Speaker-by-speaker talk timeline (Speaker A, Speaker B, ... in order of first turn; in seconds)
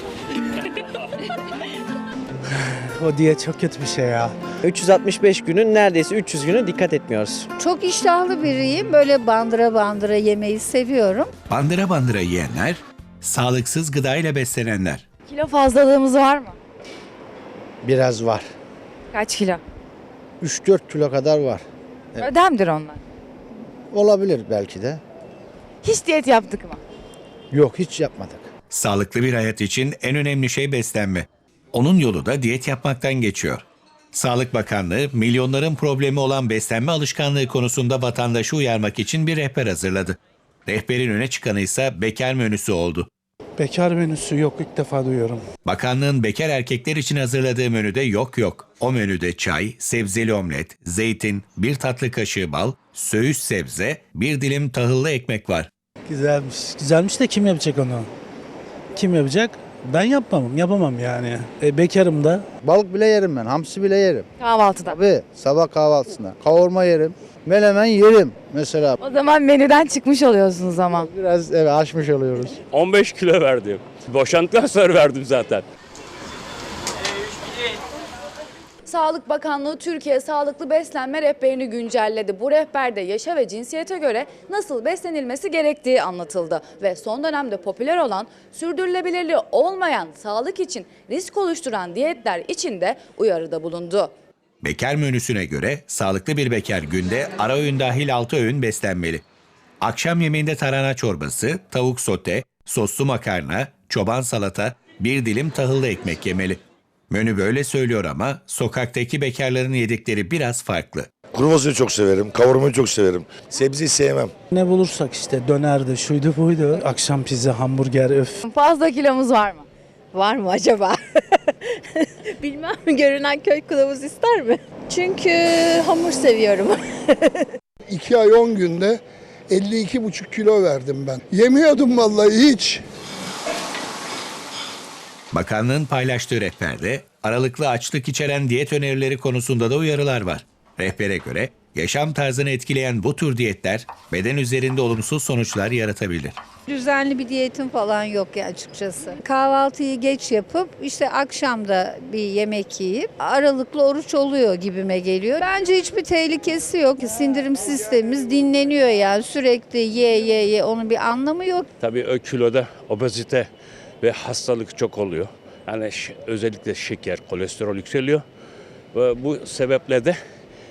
Speaker A: 2.5-4.4, 43.6-45.4, 56.1-58.1, 58.9-62.5, 114.5-118.4
Speaker B: 4.7-7.5
Speaker C: 7.6-11.3, 146.7-161.7
Speaker D: 11.5-15.0, 28.7-43.1, 45.6-55.7, 94.6-99.2, 99.8-111.1, 135.3-146.4
Speaker E: 15.3-16.6, 19.1-19.6, 22.2-23.0, 25.8-26.8, 64.4-65.0, 69.0-71.1, 118.4-121.0
Speaker F: 17.8-18.5, 20.4-22.3, 23.9-25.0, 27.5-28.5, 62.6-64.3, 64.9-69.0, 71.0-72.6
Speaker G: 72.7-75.7, 161.8-163.5, 164.0-168.2, 168.9-170.2
Speaker H: 78.9-94.1
Speaker I: 111.3-114.3
Speaker J: 122.4-126.8
Speaker K: 127.9-132.8